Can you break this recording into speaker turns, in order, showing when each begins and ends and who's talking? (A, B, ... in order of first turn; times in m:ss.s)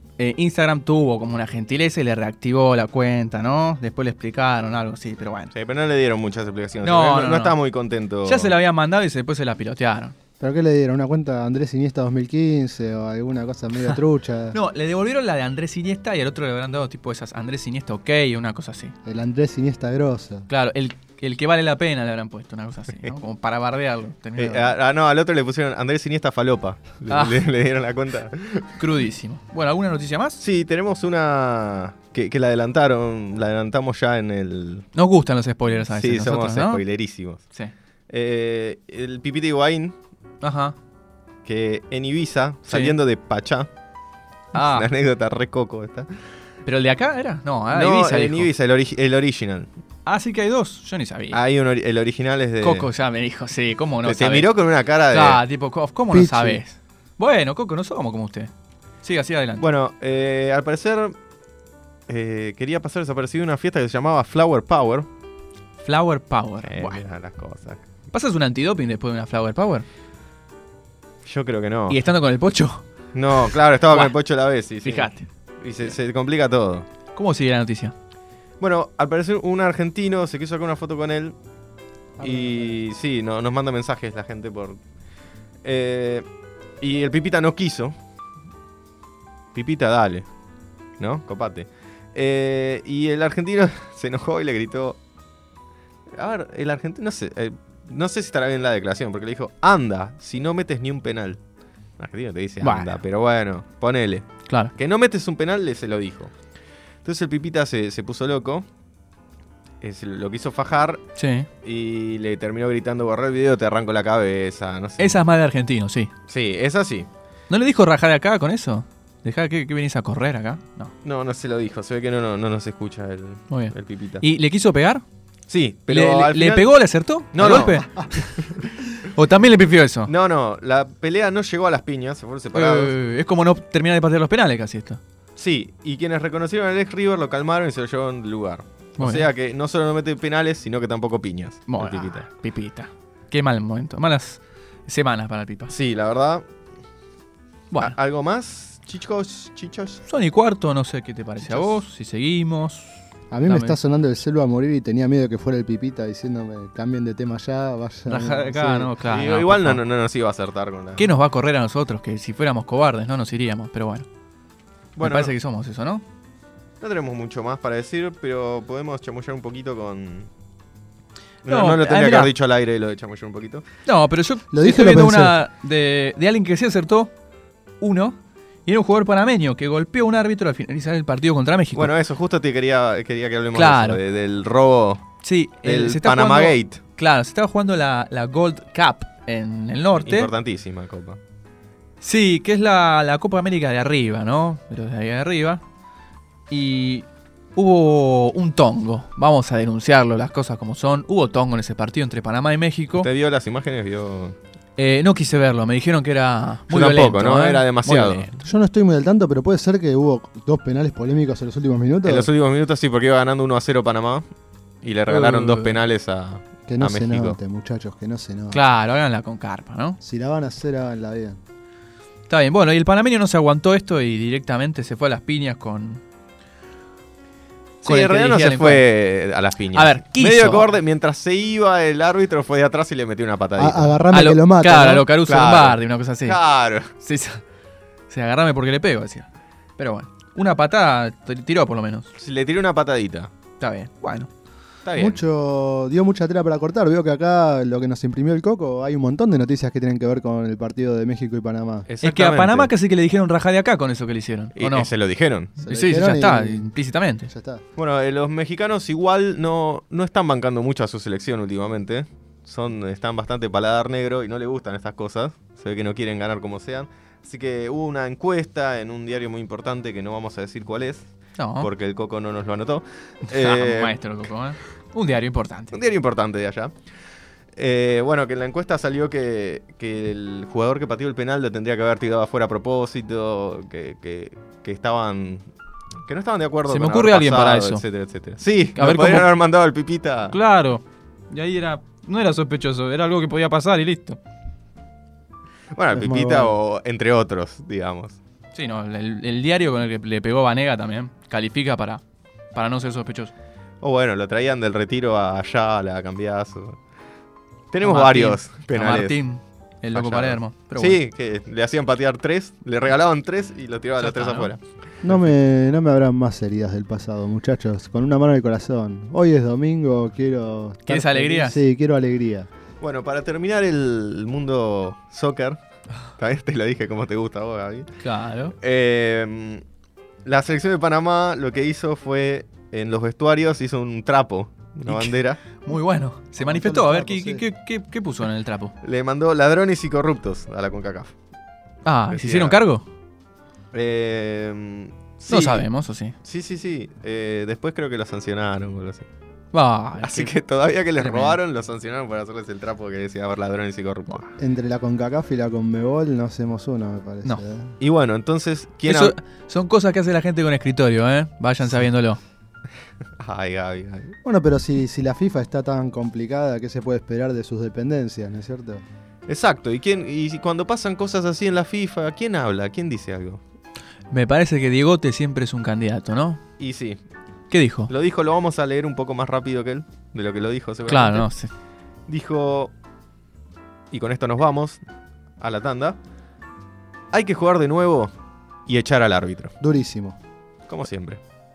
0:00.2-0:05.5 A
0:05.5-0:08.5 B
0:06.8-0:07.6 A
0:08.2-0:10.1 A
0:10.4-0:14.6 C
0:14.5-0:18.9 A
0:19.0-0:20.5 C
0:20.5-0:24.7 A
0:24.4-0:28.7 B
0:27.1-0:27.4 A
0:28.8-0:30.4 A
0:30.4-0:34.8 B
0:34.9-0:36.8 A
0:35.9-0:37.4 B
0:38.1-0:39.9 B
0:40.4-0:40.8 A
0:41.4-0:43.7 B
0:42.6-0:43.0 A
0:44.5-0:44.9 A
0:44.5-0:46.1 B
0:46.6-0:48.5 A
0:47.7-0:49.7 B
0:50.0-0:51.4 A
0:51.3-0:52.9 B
0:52.6-0:58.5 A
0:54.0-0:55.4 B
0:56.1-0:56.6 C
0:59.0-0:59.7 A
0:59.6-1:01.2 B
1:02.1-1:05.1 B
1:05.8-1:07.0 A
1:06.6-1:07.8 B
1:08.1-1:09.9 A
1:11.2-1:12.0 B
1:11.9-1:12.8 A
1:13.1-1:16.8 B
1:13.8-1:14.1 A
1:14.8-1:15.3 A
1:17.1-1:17.9 A
1:18.6-1:21.4 B
1:22.2-1:22.7 C
1:22.2-1:24.8 B
1:25.6-1:26.2 B
1:26.8-1:27.9 B
1:29.5-1:30.3 B
1:31.0-1:35.0 B
1:36.2-1:41.4 B
1:42.0-1:46.3 B
1:42.6-1:43.0 A
1:44.5-1:44.7 A
1:47.0-1:48.6 B
1:49.8-1:51.0 B
1:51.2-1:51.5 A
1:51.6-1:55.2 B
1:55.0-1:56.1 A
1:56.3-1:57.1 B
1:57.5-2:00.9 A
2:01.0-2:04.2 B
2:03.5-2:05.0 A
2:05.5-2:06.7 B
2:05.9-2:10.1 A
2:07.3-2:07.9 B
2:10.0-2:12.9 B
2:12.5-2:15.0 A
2:15.4-2:22.2 B
2:19.0-2:19.3 A
2:21.7-2:25.7 A
2:25.7-2:26.4 B
2:27.7-2:28.0 A
2:27.8-2:30.0 B
2:30.1-2:33.8 A
2:33.3-2:38.9 C
2:38.1-2:39.8 A
2:39.1-2:41.1 B
2:41.0-2:44.1 A
2:45.0-2:45.3 B
2:45.0-2:46.0 A
2:46.8-2:50.3 B
2:51.4-2:53.6 B
2:51.4-2:52.3 A
2:53.8-2:57.1 A
2:54.5-2:55.4 C
2:57.8-3:01.9 A
3:01.7-3:05.1 B
3:03.5-3:04.0 A
3:05.2-3:10.3 A
3:05.6-3:06.8 B
3:09.9-3:11.2 B
3:12.0-3:15.6 A
3:16.5-3:23.1 A
3:23.0-3:24.3 B
3:24.8-3:28.4 A
3:26.7-3:28.2 B
3:28.4-3:32.3 C
3:32.0-3:34.3 B
3:34.8-3:37.4 B
3:35.1-3:35.8 A
3:36.7-3:38.6 C
3:38.5-3:40.0 A
3:40.0-3:41.4 C
3:42.3-3:46.0 A
3:47.8-3:48.8 A
3:47.8-3:54.0 B
3:49.7-3:50.7 A
3:53.6-3:55.1 C
3:54.1-3:56.4 A
3:55.2-3:56.9 B
3:56.9-3:57.4 A
3:58.1-4:02.1 A
4:02.2-4:03.3 B
4:03.6-4:04.3 A
4:04.8-4:05.2 B
4:05.0-4:11.9 C
4:11.9-4:12.7 B
4:12.0-4:14.9 A
4:14.6-4:15.5 B
4:15.6-4:16.7 C
4:15.6-4:17.3 A
4:17.3-4:17.6 C
4:17.8-4:31.0 B
4:31.4-4:31.7 A
4:31.6-4:34.0 B
4:33.2-4:35.8 A
4:35.7-4:36.7 B
4:37.6-4:45.4 B
4:46.0-4:50.4 B
4:46.7-4:47.8 A
4:48.7-4:49.3 A
4:50.3-4:54.2 A
4:55.7-4:58.2 B
4:55.9-4:56.5 C
4:58.5-5:02.0 A
5:02.5-5:03.3 A
5:03.8-5:06.8 B
5:07.7-5:09.2 B
5:07.8-5:11.0 A
5:09.9-5:15.2 B
5:14.0-5:14.5 A
5:15.0-5:22.5 C
5:20.8-5:21.6 A
5:22.8-5:25.6 B
5:26.2-5:27.9 B
5:28.0-5:28.5 A
5:28.6-5:29.6 B
5:30.2-5:35.4 B
5:34.9-5:38.7 A
5:36.4-5:37.4 C
5:38.8-5:41.1 B
5:41.8-5:42.8 A
5:42.1-5:42.6 B
5:43.7-5:45.7 B
5:45.3-5:46.1 A
5:46.2-5:49.1 B
5:49.5-5:50.3 A
5:50.0-5:54.3 B
5:51.0-5:51.4 A
5:54.4-5:57.8 C
5:57.8-5:59.1 B
5:58.9-6:02.2 A
6:03.2-6:04.1 B
6:04.2-6:08.8 C
6:09.3-6:13.4 B
6:14.1-6:16.4 A
6:16.6-6:17.0 B
6:17.5-6:17.9 A
6:17.9-6:21.3 B
6:20.9-6:21.5 A
6:22.1-6:22.7 B
6:23.9-6:24.8 B
6:25.4-6:26.0 B
6:27.1-6:28.1 B
6:28.7-6:29.5 B
6:29.6-6:30.2 C
6:30.7-6:31.2 B